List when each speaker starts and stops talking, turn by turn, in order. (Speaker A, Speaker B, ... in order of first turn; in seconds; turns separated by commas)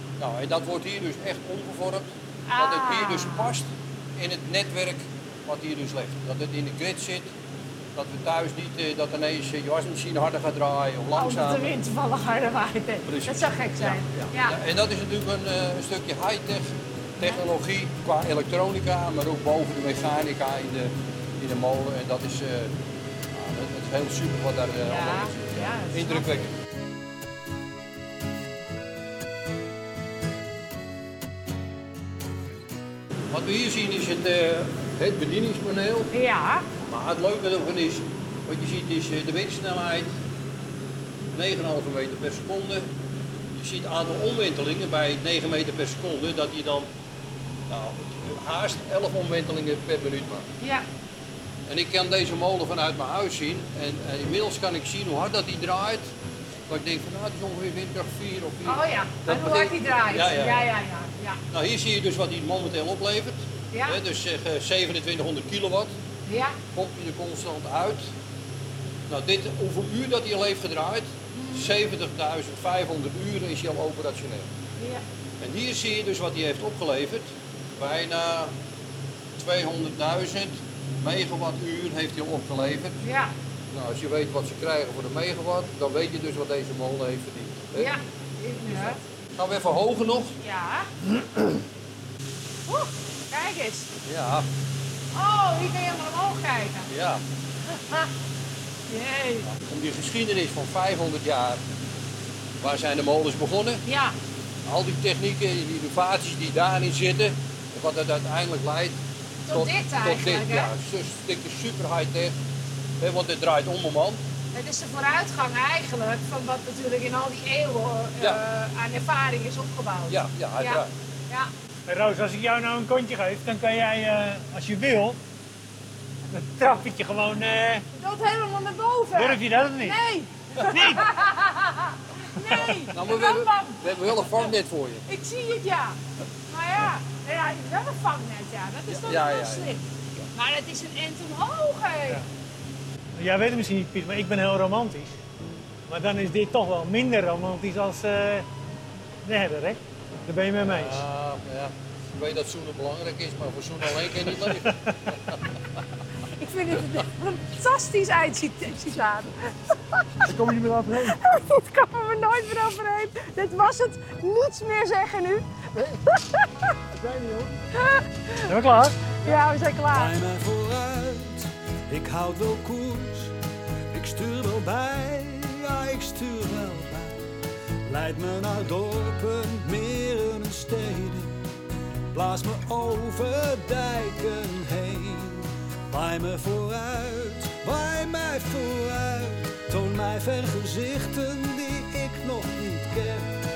Speaker A: 0.2-7.3, Speaker B: 2.5-3.5, Speaker A: 7.9-11.7, Speaker B: 11.1-14.6, Speaker A: 13.0-22.7, Speaker B: 17.2-17.5, Speaker A: 23.3-26.5, Speaker B: 24.8-26.5, Speaker A: 33.3-36.1, Speaker B: 36.1-36.6, Speaker A: 36.8-40.1, Speaker A: 41.3-42.9, Speaker A: 43.5-46.9, Speaker A: 47.7-50.5, Speaker B: 50.6-50.8, Speaker A: 51.7-56.1, Speaker A: 56.7-60.7, Speaker B: 58.6-61.4, Speaker A: 61.5-66.0, Speaker B: 63.7-64.0, Speaker B: 66.2-66.6, Speaker A: 66.7-68.1, Speaker A: 69.1-74.5, Speaker B: 71.3-71.7, Speaker B: 74.8-75.0, Speaker A: 75.4-78.5, Speaker A: 79.4-83.0, Speaker B: 83.0-83.3, Speaker A: 83.7-87.9, Speaker B: 87.8-89.0, Speaker A: 88.7-90.4, Speaker B: 90.4-90.9, Speaker B: 92.7-93.9, Speaker A: 94.0-94.5, Speaker B: 95.1-96.9, Speaker A: 96.9-97.2, Speaker B: 97.8-98.1, Speaker B: 98.9-99.5, Speaker A: 99.5-101.6, Speaker A: 102.6-103.8, Speaker B: 103.8-104.1, Speaker A: 104.7-112.4, Speaker B: 109.5-110.7, Speaker A: 113.0-114.2, Speaker B: 114.5-121.5, Speaker A: 120.1-120.9, Speaker C: 121.9-125.2, Speaker C: 126.3-127.8, Speaker B: 127.9-134.3, Speaker C: 129.1-130.0, Speaker C: 130.7-131.2, Speaker C: 132.6-132.9, Speaker A: 132.9-135.0, Speaker B: 135.1-142.2, Speaker A: 138.9-139.8, Speaker C: 143.2-145.2, Speaker C: 145.9-148.5, Speaker C: 149.2-151.0, Speaker A: 150.6-155.4, Speaker C: 154.0-155.2, Speaker B: 156.2-160.3, Speaker C: 160.2-161.2, Speaker B: 160.9-166.7, Speaker D: 167.2-167.5, Speaker B: 167.7-170.2, Speaker C: 168.4-169.0, Speaker D: 169.9-173.4, Speaker D: 173.9-181.4, Speaker D: 182.1-193.4